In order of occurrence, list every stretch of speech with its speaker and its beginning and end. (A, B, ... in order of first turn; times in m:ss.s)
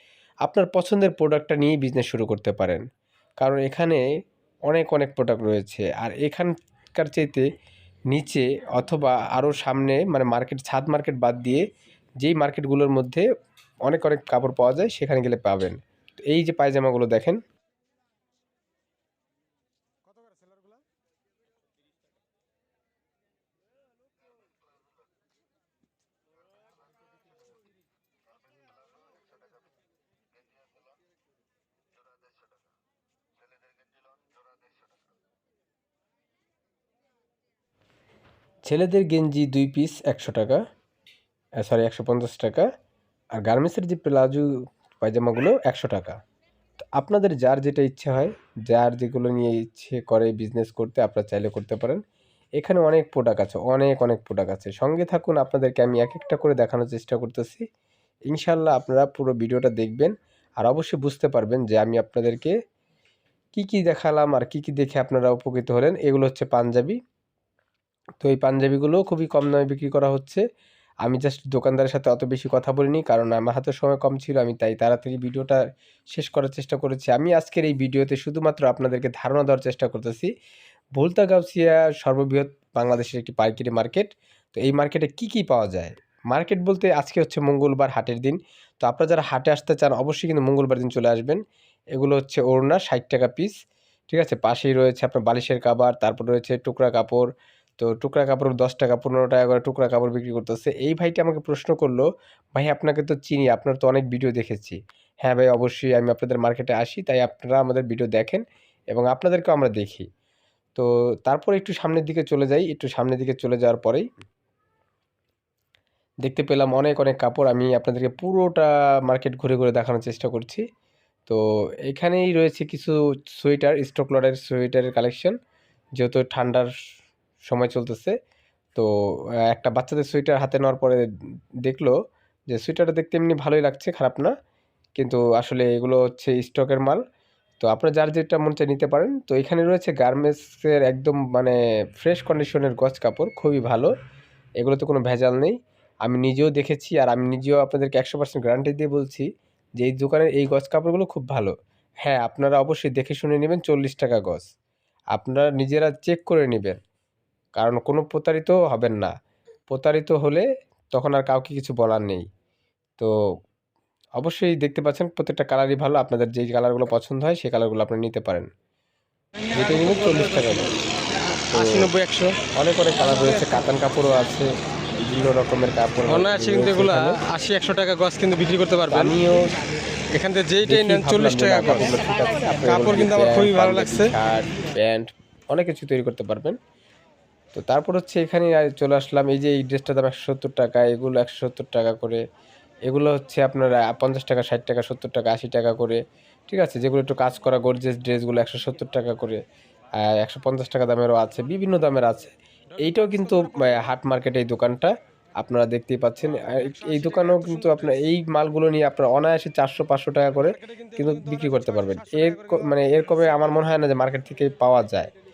0:00.4-0:02.8 A
0:03.4-0:04.0 A
0:04.7-0:07.5 A
0:08.1-0:11.6 A
0:12.2-0:13.2 A
0:13.9-0:17.4 A
0:20.1-0:20.7 B
0:38.6-0:40.6 A
0:41.6-0:42.7 A
0:43.4-0:44.5 A
0:45.0-0:46.2 A
0:46.8-0:52.0 A
0:52.6-0:57.6 A
0:58.3-1:02.5 A
1:03.5-1:07.0 A
1:08.2-1:10.4 A
1:11.0-1:15.6 A
1:16.1-1:20.3 A
1:21.0-1:31.4 A
1:31.9-1:33.5 A
1:34.1-1:37.3 A
1:37.8-1:50.1 A
1:50.7-1:54.0 A
1:56.2-2:00.6 A
2:01.3-2:05.3 A
2:06.0-2:06.7 A
2:07.5-2:08.2 A
2:09.5-2:11.0 A
2:11.6-2:12.0 A
2:12.5-2:14.3 A
2:15.0-2:17.0 A
2:17.6-2:23.9 A
2:24.6-2:29.3 A
2:29.8-2:34.5 A
2:35.1-2:36.8 A
2:37.6-2:39.1 A
2:39.7-2:42.3 A
2:44.2-2:48.5 A
2:49.5-2:50.7 A
2:51.5-2:51.9 A
2:51.5-2:52.4 B
2:52.5-2:54.5 A
2:55.0-2:57.2 A
2:56.0-2:59.2 B
2:58.9-2:59.5 A
3:00.1-3:01.9 B
3:00.6-3:06.6 A
3:02.6-3:04.2 B
3:07.5-3:12.2 A
3:12.9-3:19.4 A
3:20.0-3:35.1 A
3:22.8-3:23.9 B
3:26.3-3:28.1 B
3:30.4-3:33.7 B